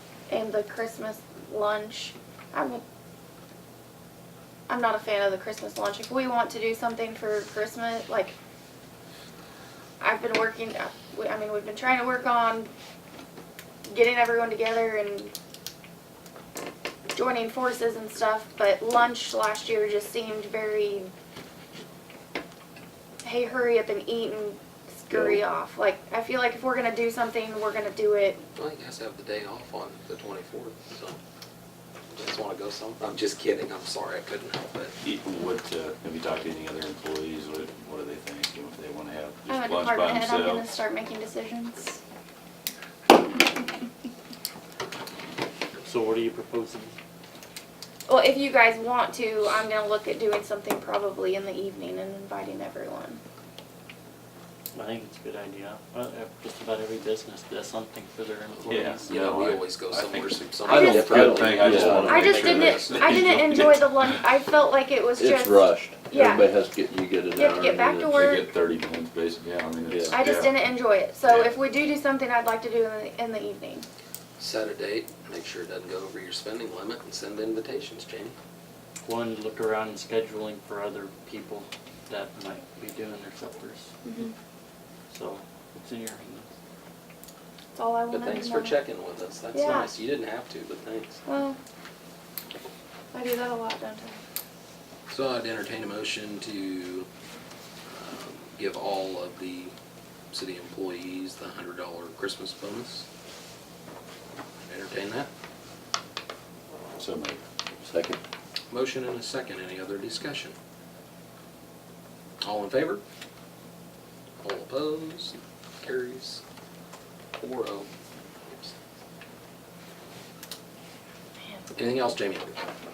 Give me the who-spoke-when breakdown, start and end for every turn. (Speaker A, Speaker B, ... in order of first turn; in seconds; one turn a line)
Speaker A: 0.3-2.8
Speaker A: 4.7-8.3
Speaker A: 10.0-12.7
Speaker A: 13.8-15.3
Speaker A: 17.1-21.1
Speaker A: 23.2-28.4
Speaker B: 28.6-31.2
Speaker B: 32.1-34.9
Speaker C: 35.0-40.7
Speaker A: 39.5-42.0
Speaker D: 45.8-46.9
Speaker A: 48.1-53.2
Speaker D: 54.7-59.3
Speaker C: 58.7-64.1
Speaker B: 59.1-63.2
Speaker A: 60.7-61.3
Speaker E: 60.7-62.9
Speaker A: 62.0-66.5
Speaker E: 65.2-68.3
Speaker A: 67.3-68.5
Speaker C: 68.1-70.7
Speaker E: 69.9-70.2
Speaker A: 70.1-73.9
Speaker B: 71.2-71.6
Speaker B: 74.4-78.3
Speaker D: 79.0-83.9
Speaker A: 84.0-84.3
Speaker D: 85.1-86.5
Speaker A: 87.7-88.8
Speaker B: 88.1-91.2
Speaker A: 89.5-90.0
Speaker A: 91.2-91.6
Speaker A: 93.1-94.2
Speaker B: 95.1-97.1
Speaker B: 97.9-99.7
Speaker B: 100.3-103.0
Speaker B: 104.7-105.3
Speaker C: 107.0-107.4
Speaker E: 107.8-108.2
Speaker B: 108.7-110.5
Speaker B: 112.4-113.0
Speaker B: 114.4-116.4
Speaker B: 117.4-117.9
Speaker B: 118.4-118.8
Speaker B: 121.7-122.6